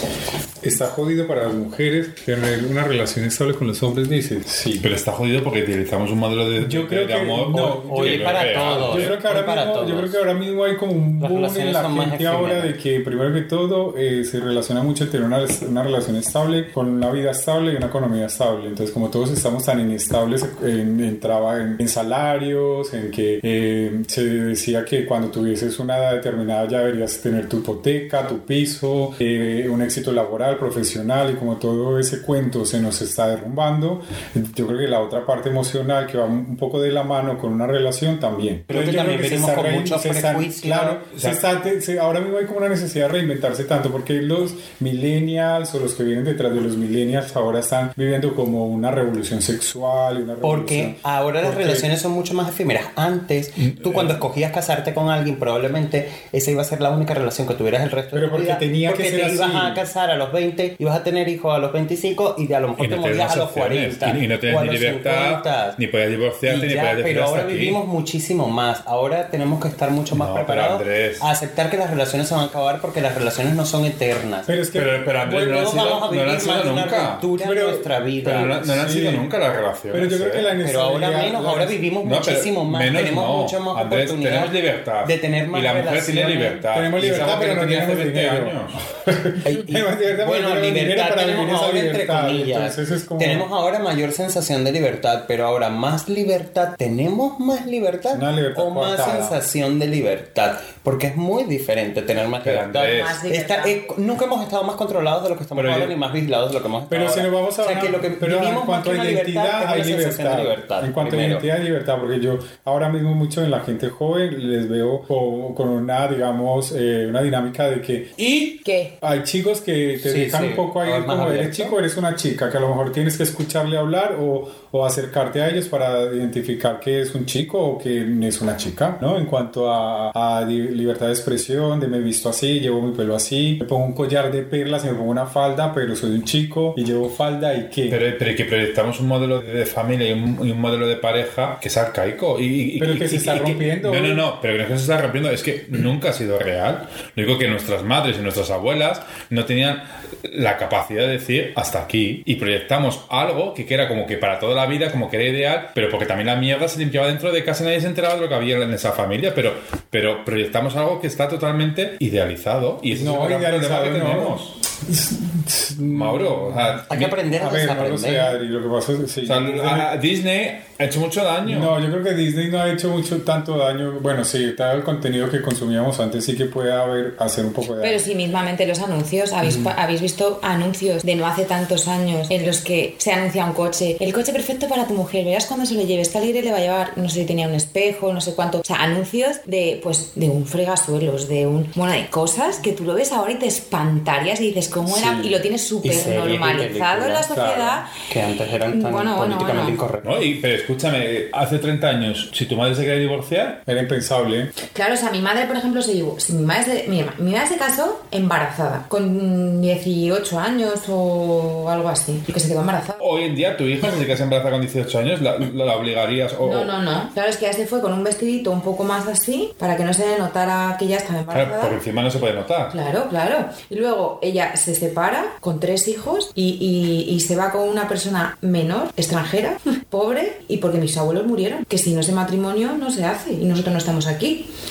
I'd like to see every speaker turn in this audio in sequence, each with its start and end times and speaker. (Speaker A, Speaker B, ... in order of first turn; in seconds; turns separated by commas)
Speaker A: 0.6-4.9, Speaker B: 4.8-9.2, Speaker A: 6.6-51.9, Speaker C: 7.5-10.2, Speaker C: 11.2-12.7, Speaker C: 38.7-41.0, Speaker B: 41.1-41.4, Speaker C: 50.4-65.8, Speaker B: 53.6-54.2, Speaker A: 58.1-59.8, Speaker B: 62.8-67.8, Speaker C: 66.5-74.5, Speaker B: 70.1-71.3, Speaker A: 74.5-74.9, Speaker B: 74.7-77.2, Speaker C: 75.2-78.5, Speaker A: 77.3-79.3, Speaker B: 78.2-80.5, Speaker A: 79.9-81.8, Speaker C: 80.6-86.6, Speaker B: 82.0-88.8, Speaker A: 86.7-93.5, Speaker C: 89.4-111.5, Speaker A: 98.1-99.4, Speaker B: 102.4-103.2, Speaker D: 102.9-103.8, Speaker B: 105.6-105.9, Speaker A: 106.9-118.1, Speaker D: 118.6-119.0, Speaker A: 119.0-138.0, Speaker C: 120.0-121.8, Speaker B: 137.9-164.5, Speaker A: 142.8-144.2, Speaker A: 162.9-169.9, Speaker B: 165.8-167.2, Speaker C: 166.9-168.4, Speaker B: 169.2-171.7, Speaker A: 171.4-178.1, Speaker D: 177.8-197.9, Speaker A: 194.9-195.4, Speaker C: 195.8-197.3, Speaker A: 197.3-197.8, Speaker C: 198.0-200.3, Speaker D: 198.7-199.8, Speaker B: 200.0-203.7, Speaker A: 203.7-204.6, Speaker D: 204.6-213.0, Speaker B: 213.0-216.7, Speaker D: 216.4-221.8, Speaker B: 221.3-222.8, Speaker D: 222.7-234.5